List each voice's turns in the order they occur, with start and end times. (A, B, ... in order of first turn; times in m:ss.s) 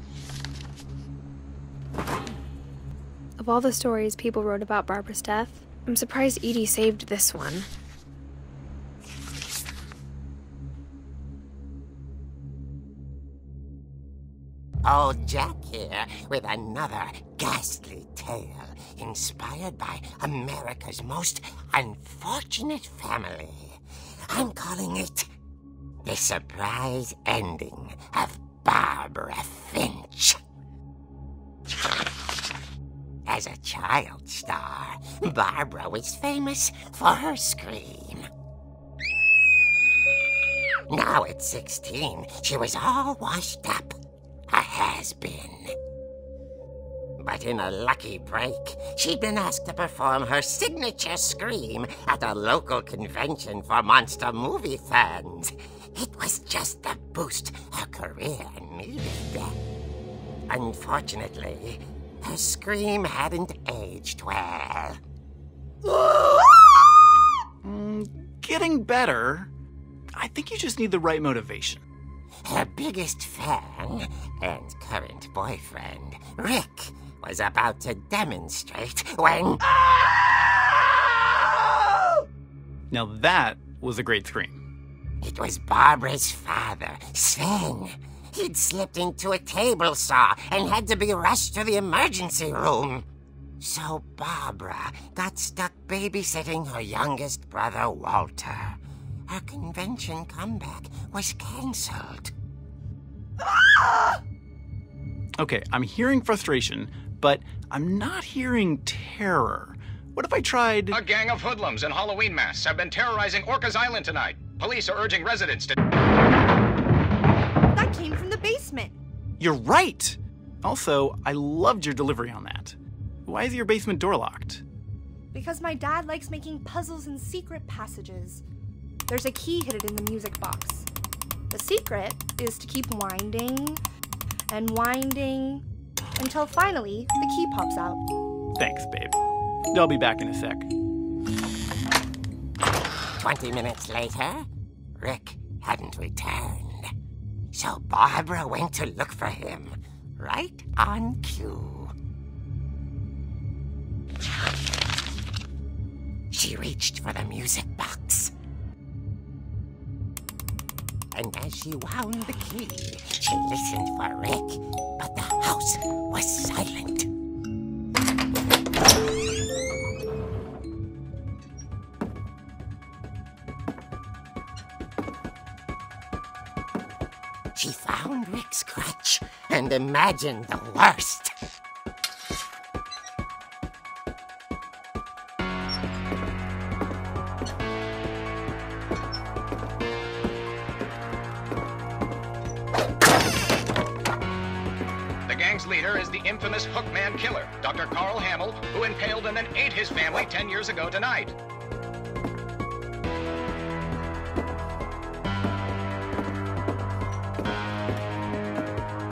0:03.4-0:07.7 A
0:14.8-0:25.3 B
0:26.0-0:30.4 B
0:33.3-0:38.3 B
0:40.9-0:44.0 B
0:44.5-0:45.8 B
0:47.2-0:59.6 B
1:00.5-1:05.0 B
1:07.6-1:09.5 C
1:10.2-1:11.8 C
1:12.4-1:20.8 B
1:22.9-1:24.6 C
1:25.2-1:33.1 B
1:33.6-1:42.3 B
1:45.4-1:51.0 C
1:50.9-1:55.8 D
1:57.7-1:59.0 E
1:59.4-2:04.6 C
2:05.3-2:08.4 E
2:09.1-2:10.9 E
2:11.5-2:13.8 E
2:14.5-2:15.6 E
2:16.2-2:18.0 E
2:18.6-2:19.2 C
2:19.7-2:20.7 C
2:23.2-2:24.5 B
2:25.0-2:26.9 B
2:27.5-2:31.9 B
2:36.3-2:38.3 B
2:41.1-2:47.1 B
2:57.6-3:01.3 B
3:15.3-3:21.4 D